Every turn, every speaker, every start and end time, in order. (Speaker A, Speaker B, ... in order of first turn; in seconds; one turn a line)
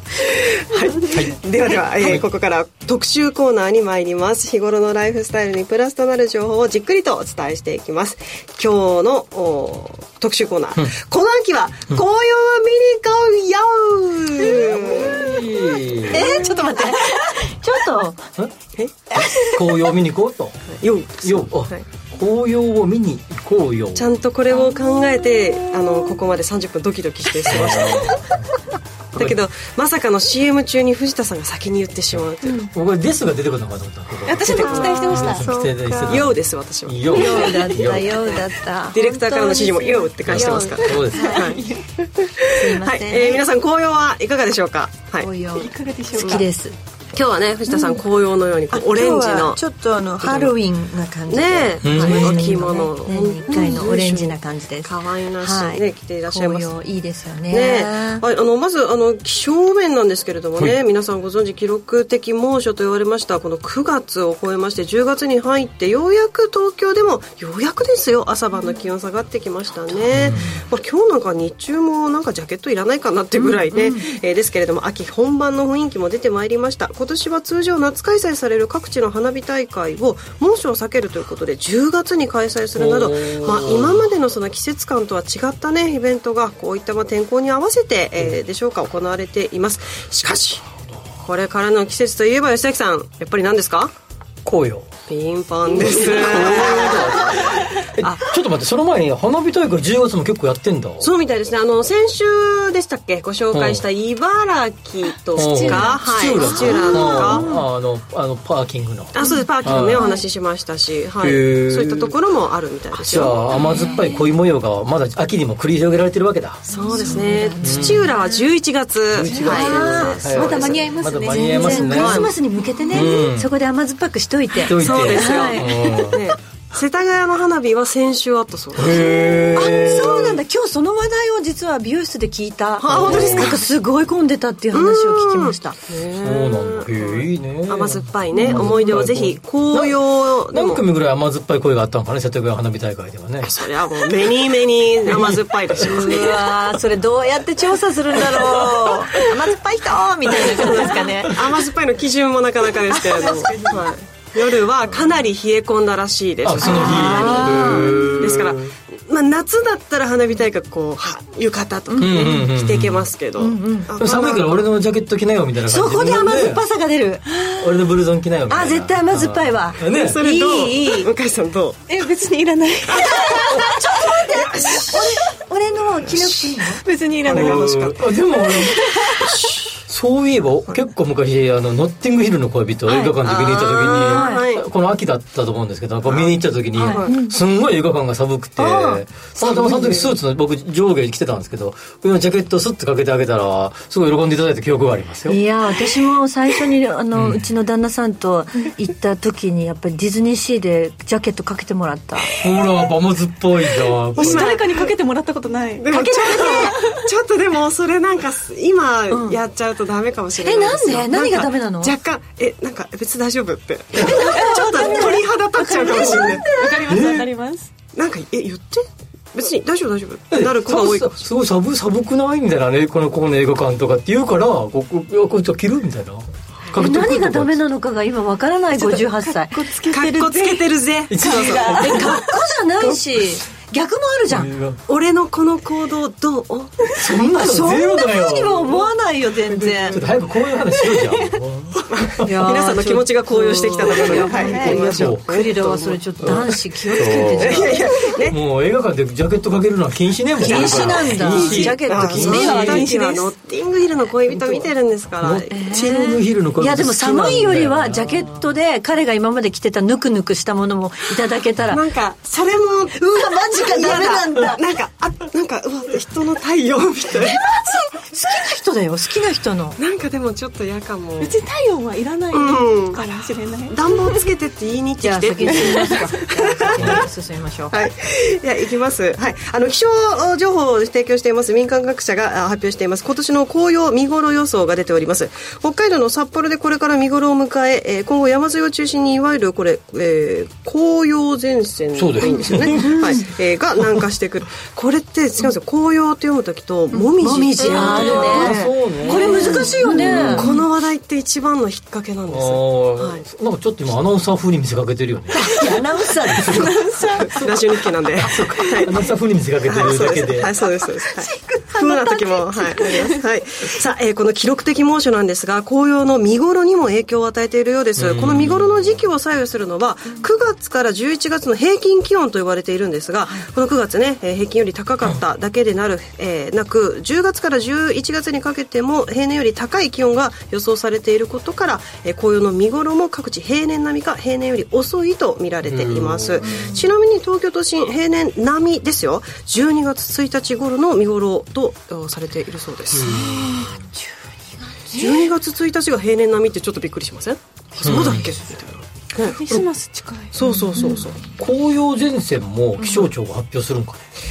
Speaker A: 0.2-15.3
Speaker B: 1.1-1.4
Speaker B: 14.8-16.3
Speaker C: 16.1-18.2
Speaker B: 19.2-20.6
Speaker A: 20.7-21.9
Speaker B: 21.2-24.1
Speaker A: 24.0-28.3
Speaker B: 27.5-28.5
Speaker A: 29.1-32.6
Speaker B: 32.7-38.3
Speaker D: 34.3-36.1
Speaker A: 34.4-37.7
Speaker C: 37.1-40.7
Speaker A: 38.9-45.3
Speaker B: 40.2-41.4
Speaker D: 41.1-41.8
Speaker C: 42.6-43.4
Speaker C: 45.2-46.8
Speaker D: 45.6-46.5
Speaker A: 46.2-46.5
Speaker A: 47.1-49.6
Speaker C: 48.7-58.2
Speaker A: 50.2-50.6
Speaker A: 51.3-56.7
Speaker B: 51.8-52.6
Speaker A: 57.5-90.7
Speaker B: 70.1-70.5
Speaker C: 73.7-74.1
Speaker B: 82.8-84.1
Speaker A: 91.2-93.9
Speaker B: 94.5-94.9
Speaker A: 95.1-98.2
Speaker B: 95.8-101.1
Speaker A: 101.0-107.5
Speaker B: 103.5-103.8
Speaker B: 105.3-110.1
Speaker C: 106.4-107.3
Speaker A: 109.1-113.5
Speaker B: 111.2-112.1
Speaker B: 113.0-116.7
Speaker C: 113.5-114.1
Speaker A: 116.7-121.0
Speaker C: 116.7-118.4
Speaker D: 116.9-117.2
Speaker B: 117.6-118.1
Speaker B: 119.1-122.3
Speaker C: 119.4-126.0
Speaker D: 120.9-121.6
Speaker A: 121.7-122.4
Speaker B: 122.9-123.5
Speaker B: 124.7-126.2
Speaker A: 124.7-129.8
Speaker B: 128.8-130.4
Speaker C: 129.6-135.8
Speaker A: 132.8-133.6
Speaker B: 132.9-133.6
Speaker A: 134.7-140.8
Speaker B: 136.1-143.5
Speaker C: 138.3-138.8
Speaker A: 143.4-146.6
Speaker B: 145.1-146.1
Speaker C: 145.8-151.4
Speaker A: 150.3-164.7
Speaker C: 153.0-153.3
Speaker B: 156.4-158.7
Speaker C: 156.6-158.1
Speaker C: 161.9-162.4
Speaker B: 162.0-163.1
Speaker C: 163.4-163.9
Speaker B: 164.0-166.6
Speaker C: 165.7-167.3
Speaker B: 167.6-170.2
Speaker C: 168.5-171.1
Speaker A: 169.8-171.8
Speaker D: 171.9-173.4
Speaker A: 172.9-175.2
Speaker C: 173.0-176.8
Speaker A: 176.1-176.5
Speaker D: 176.8-177.6
Speaker A: 177.2-178.2
Speaker B: 177.3-179.0
Speaker A: 179.2-179.7
Speaker B: 179.9-195.4
Speaker A: 183.2-184.7
Speaker C: 183.9-184.4
Speaker A: 186.1-187.2
Speaker C: 186.8-187.0
Speaker C: 188.6-189.0
Speaker A: 189.4-190.1
Speaker C: 195.3-202.3
Speaker B: 197.1-197.5
Speaker B: 202.4-204.6
Speaker A: 204.2-204.9
Speaker D: 204.2-205.8
Speaker A: 205.8-216.8
Speaker C: 205.9-206.8
Speaker C: 209.1-209.4
Speaker C: 210.4-211.9
Speaker C: 214.0-215.2
Speaker D: 214.3-217.7
Speaker B: 216.8-217.3
Speaker A: 217.9-221.2
Speaker B: 220.3-227.6
Speaker C: 226.7-229.9
Speaker D: 229.0-230.5
Speaker A: 229.9-232.2
Speaker B: 231.1-232.3
Speaker C: 231.5-234.5
Speaker B: 234.3-234.8
Speaker A: 234.9-237.0
Speaker B: 236.9-238.9
Speaker C: 237.2-240.0
Speaker B: 239.5-242.3
Speaker A: 241.9-246.4
Speaker C: 242.2-247.8
Speaker B: 244.2-245.3
Speaker B: 246.2-252.9
Speaker A: 247.0-248.4
Speaker C: 250.4-253.0
Speaker A: 250.5-255.7
Speaker D: 252.4-253.2
Speaker B: 255.2-258.3
Speaker C: 255.5-261.8
Speaker A: 261.7-267.5
Speaker C: 263.0-264.6
Speaker C: 267.2-269.8
Speaker A: 269.8-271.4
Speaker D: 271.2-274.2
Speaker A: 272.3-273.1
Speaker A: 273.7-277.0
Speaker C: 275.0-277.8
Speaker A: 277.7-303.2
Speaker B: 291.9-293.2
Speaker C: 297.1-300.5
Speaker B: 297.6-300.5
Speaker B: 302.3-306.9
Speaker C: 305.3-306.7
Speaker A: 306.6-309.0
Speaker D: 306.8-307.2
Speaker B: 308.2-310.5
Speaker A: 309.6-343.1
Speaker C: 311.7-312.8
Speaker B: 318.0-319.0
Speaker B: 335.6-336.7
Speaker C: 336.4-336.9
Speaker B: 342.9-343.8
Speaker A: 344.9-349.6
Speaker B: 347.8-348.4
Speaker D: 349.4-350.3
Speaker A: 350.3-351.2
Speaker B: 351.3-354.1